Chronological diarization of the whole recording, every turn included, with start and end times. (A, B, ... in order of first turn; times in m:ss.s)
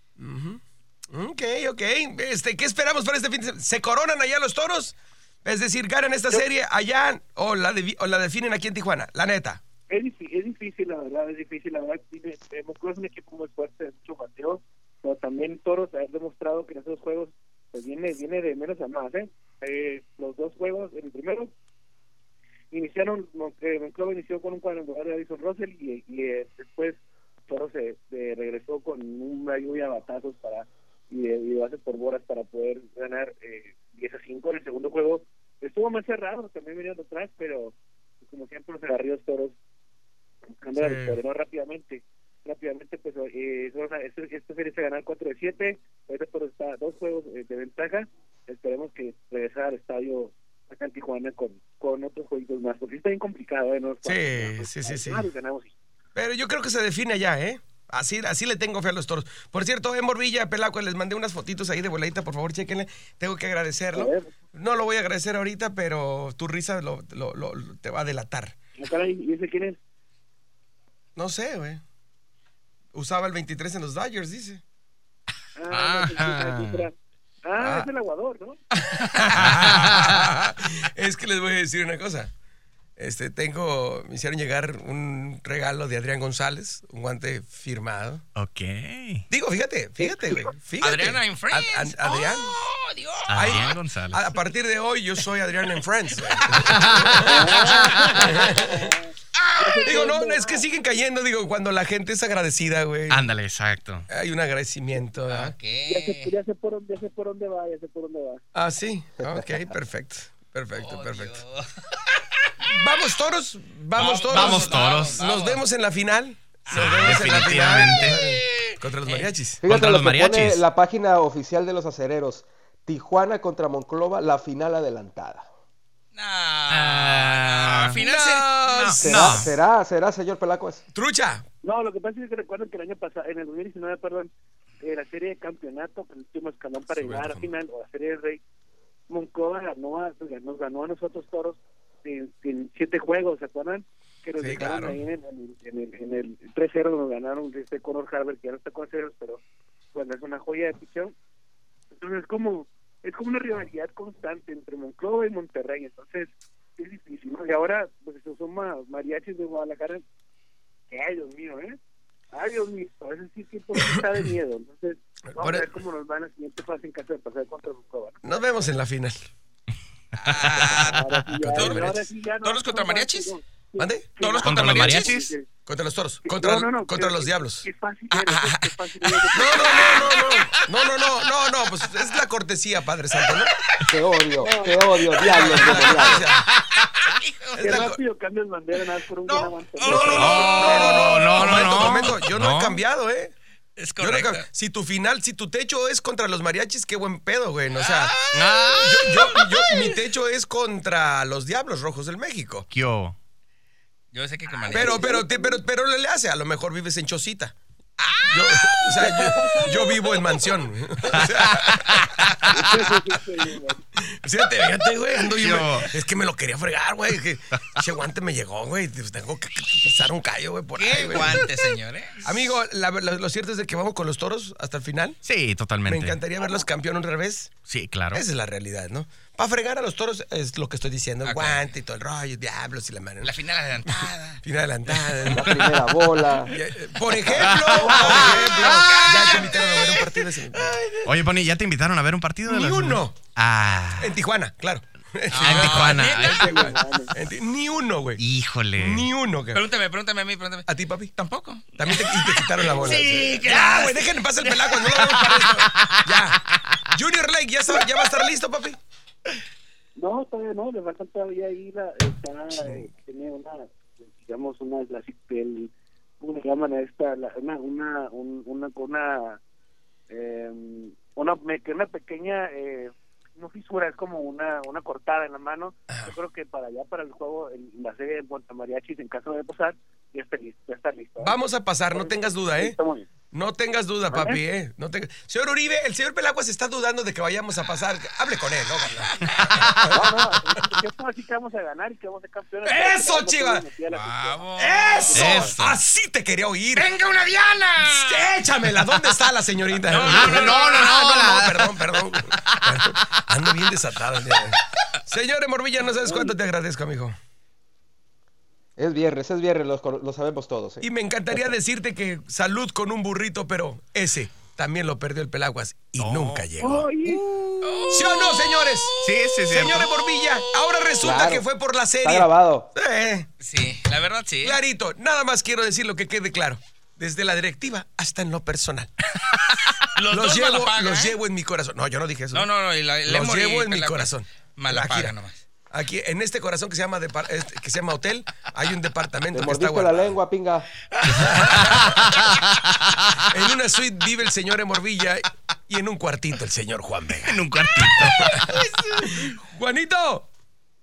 0:00.2-0:09.6 A
0:09.9-0:21.5 B
0:22.7-0:39.5 B
0:40.4-0:55.7 B
0:40.8-0:41.2 C
0:54.0-0:55.3 A
0:56.1-1:08.5 A
1:03.9-1:04.3 B
1:08.8-1:09.8 B
1:11.2-1:11.8 A
1:12.9-1:14.6 A
1:15.5-1:18.6 B
1:15.7-1:16.8 D
1:17.6-1:17.9 A
1:18.8-1:22.3 A
1:19.4-1:20.2 D
1:23.0-1:28.2 A
1:28.4-1:29.2 D
1:29.3-1:32.6 A
1:30.8-1:33.7 C
1:33.3-1:34.3 D
1:33.4-1:37.5 A
1:36.6-1:38.2 D
1:37.2-1:40.7 B
1:38.2-1:38.9 A
1:39.8-1:43.3 A
1:43.1-1:44.0 D
1:44.1-1:45.5 A
1:45.3-1:46.3 C
1:45.8-1:48.4 B
1:48.5-1:51.4 A
1:50.7-1:51.7 C
1:52.6-1:59.6 A
1:53.9-1:55.6 C
1:54.2-1:55.2 D
1:56.7-1:59.3 C
1:56.7-1:58.2 D
1:59.6-2:05.5 E
1:59.6-2:00.6 D
2:06.1-2:09.0 C
2:06.7-2:08.0 D
2:08.0-2:09.3 A
2:08.6-2:09.5 D
2:09.0-2:10.8 E
2:10.9-2:11.4 A
2:11.6-2:18.4 B
2:16.9-2:17.5 A
2:19.1-2:29.4 B
2:24.4-2:25.0 A
2:29.9-2:31.1 B
2:31.9-2:40.0 B
2:40.9-2:41.8 B
2:42.3-2:48.7 B
2:45.3-2:45.7 A
2:48.2-2:49.3 A
2:50.2-2:53.3 C
2:50.3-2:51.0 D
2:50.6-2:55.4 B
2:51.5-2:51.8 A
2:53.8-2:54.1 A
2:54.2-2:55.2 C
2:54.4-2:55.3 D
2:55.6-2:58.7 A
2:56.2-3:00.3 B
2:59.3-3:03.5 A
2:59.5-3:00.5 C
3:03.9-3:06.3 E
3:04.4-3:06.0 B
3:05.2-3:06.4 A
3:05.3-3:05.8 C
3:06.6-3:07.9 C
3:07.5-3:08.0 A
3:07.6-3:11.2 B
3:09.3-3:13.3 A
3:09.7-3:12.1 C
3:10.0-3:12.8 D
3:13.8-3:14.4 C
3:14.0-3:22.7 A
3:17.8-3:19.2 C
3:18.3-3:19.6 D
3:22.7-3:23.1 D
3:24.1-3:25.1 C
3:24.7-3:25.6 B
3:24.7-3:32.6 A
3:29.0-3:30.5 B
3:31.1-3:32.2 D
3:32.5-3:33.8 B
3:34.0-3:41.5 A
3:35.2-3:35.9 D
3:40.7-3:42.3 C
3:42.2-3:45.2 A
3:45.2-3:46.2 D
3:45.8-3:47.6 A
3:47.6-3:48.2 D
3:48.1-3:53.3 A
3:51.2-3:51.7 C
3:53.2-3:54.4 C
3:53.9-3:55.5 A
3:55.3-3:56.6 E
3:56.5-4:01.0 A
3:57.4-3:58.4 D
3:57.8-4:01.0 C
4:01.0-4:04.2 D
4:02.4-4:03.2 A
4:04.0-4:08.2 A
4:05.3-4:06.7 C
4:05.3-4:06.4 D
4:06.2-4:07.1 B
4:08.2-4:09.1 D
4:08.8-4:09.6 A
4:09.5-4:15.7 C
4:10.6-4:11.1 A
4:11.8-4:16.4 A
4:12.7-4:13.2 B
4:15.8-4:16.1 D
4:16.9-4:18.8 A
4:20.0-4:29.4 B
4:22.5-4:22.9 A
4:30.1-4:41.4 B
4:41.2-4:42.8 A
4:41.9-4:43.1 B
4:43.3-4:50.1 A
4:44.1-4:44.4 B
4:49.1-4:49.7 C
4:49.9-4:55.5 B
4:52.6-4:53.6 A
4:53.9-4:55.5 C
4:54.6-4:56.9 A
4:55.1-4:55.8 D
4:56.8-4:58.3 C
4:57.8-5:07.2 A
4:59.7-5:01.1 C
5:00.0-5:01.7 D
5:02.3-5:03.0 D
5:05.9-5:06.4 B
5:08.8-5:11.5 E
5:10.8-5:16.8 A
5:16.0-5:16.4 D
5:16.6-5:17.5 B
5:17.6-5:18.8 C
5:17.9-5:23.3 A
5:19.0-5:19.9 D
5:21.0-5:21.5 E
5:22.0-5:22.7 E
5:23.4-5:24.6 C
5:24.4-5:28.9 A
5:29.9-5:31.2 C
5:30.1-5:32.5 A
5:32.3-5:35.4 C
5:33.0-5:35.2 A
5:35.7-5:40.1 A
5:39.3-5:40.7 E
5:41.0-5:42.2 A
5:41.4-5:43.1 D
5:43.2-5:50.3 A
5:47.2-5:48.6 D